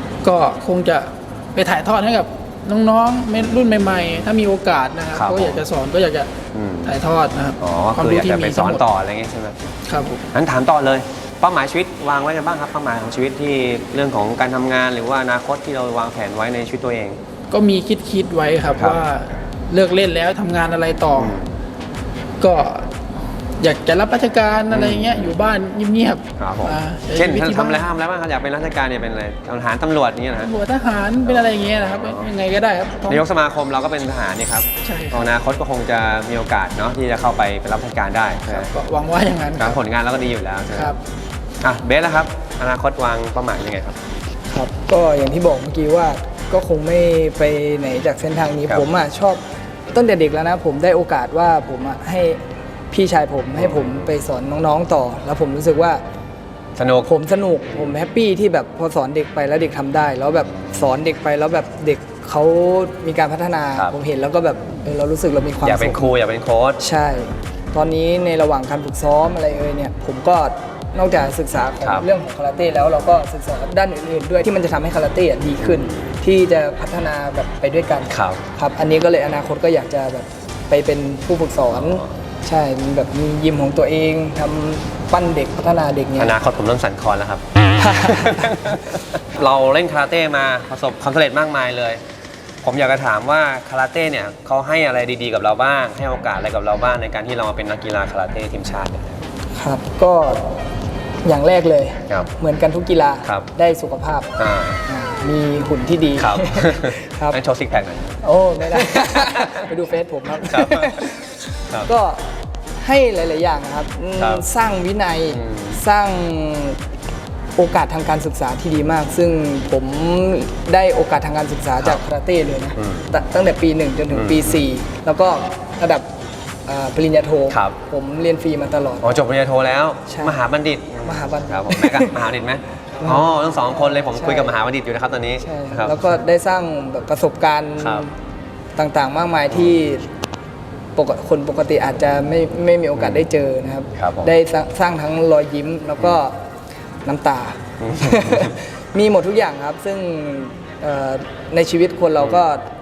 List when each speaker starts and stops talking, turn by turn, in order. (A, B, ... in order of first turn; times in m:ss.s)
0:00.2-0:08.8 A
0:03.8-0:04.1 B
0:05.1-0:05.6 B
0:06.5-0:06.9 B
0:07.6-0:09.7 B
0:09.9-0:10.3 A
0:10.3-0:17.2 B
0:17.5-0:21.4 A
0:18.8-0:19.0 B
0:21.1-0:21.6 B
0:22.4-0:23.0 A
0:23.6-0:27.9 A
0:24.7-0:25.3 B
0:26.4-0:30.5 B
0:30.4-0:33.2 A
0:31.3-0:32.3 B
0:33.1-0:38.7 B
0:34.8-0:35.3 A
0:38.5-0:39.8 A
0:39.6-0:41.0 B
0:41.6-0:44.0 B
0:44.5-0:49.4 C
0:49.9-0:56.0 C
0:53.6-0:54.1 B
0:56.8-0:57.1 B
0:57.1-1:06.1 C
1:00.6-1:00.9 B
1:05.6-1:06.8 B
1:06.8-1:26.4 C
1:11.8-1:12.1 B
1:15.6-1:16.1 B
1:18.1-1:18.4 B
1:21.7-1:22.1 B
1:26.2-1:32.0 B
1:27.8-1:28.8 C
1:32.6-1:39.2 B
1:39.6-1:40.6 C
1:41.2-1:44.3 C
1:44.4-1:44.8 B
1:44.9-1:47.4 C
1:46.2-1:49.7 B
1:48.2-1:52.2 C
1:50.4-1:51.0 B
1:52.8-1:56.8 C
1:54.2-1:54.4 B
1:55.3-1:55.8 B
1:57.6-2:06.0 C
2:02.8-2:03.1 B
2:04.1-2:04.6 B
2:06.7-2:09.1 C
2:07.5-2:07.8 B
2:09.0-2:16.0 B
2:10.1-2:10.4 C
2:11.0-2:12.3 C
2:13.0-2:14.6 C
2:15.4-2:18.1 C
2:17.8-2:18.0 B
2:18.8-2:20.1 C
2:19.5-2:19.8 B
2:21.0-2:26.4 C
2:23.0-2:23.3 B
2:24.0-2:24.3 B
2:27.0-2:32.6 C
2:27.8-2:28.6 B